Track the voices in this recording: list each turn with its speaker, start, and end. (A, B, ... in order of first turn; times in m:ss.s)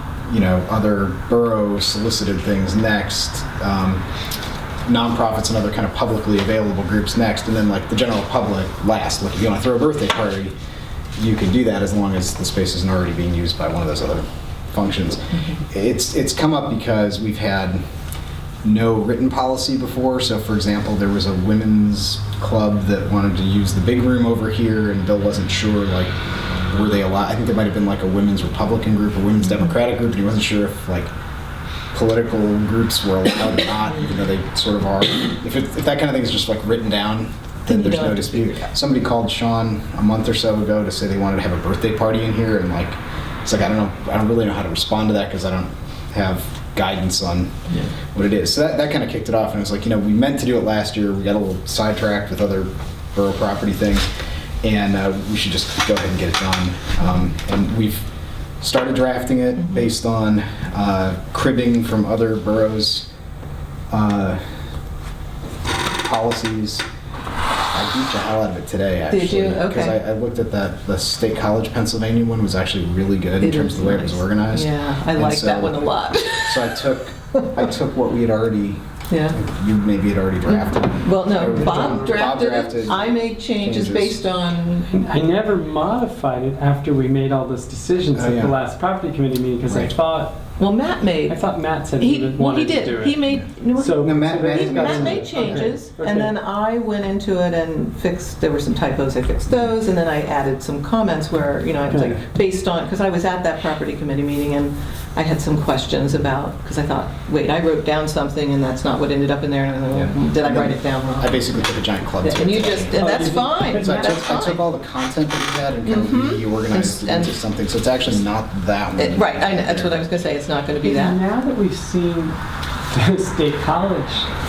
0:00.3-0:04.0 A
0:04.9-0:10.6 A
0:11.2-0:17.8 A
0:18.6-0:26.1 A
0:26.7-0:31.1 A
0:31.9-0:47.6 A
0:37.7-0:38.7 B
0:48.1-0:54.1 A
0:54.6-0:58.1 A
0:58.6-1:03.1 A
1:03.9-1:04.4 A
1:06.0-1:06.8 A
1:07.7-1:15.9 A
1:09.1-1:10.0 B
1:13.4-1:16.8 B
1:16.4-1:24.2 A
1:19.1-1:19.4 B
1:20.4-1:24.9 B
1:24.9-1:30.4 C
1:28.1-1:28.6 A
1:29.7-1:29.9 A
1:30.6-1:31.4 B
1:31.3-1:33.2 C
1:32.0-1:51.5 B
1:33.8-1:36.3 C
1:34.0-1:35.7 A
1:41.9-1:42.2 C
1:49.9-1:53.1 A
1:52.2-1:54.6 B
1:53.0-1:54.4 C
1:53.7-2:00.1 A
1:55.9-1:57.3 B
1:59.0-2:01.2 B
2:00.8-2:02.4 C
2:02.9-2:04.3 C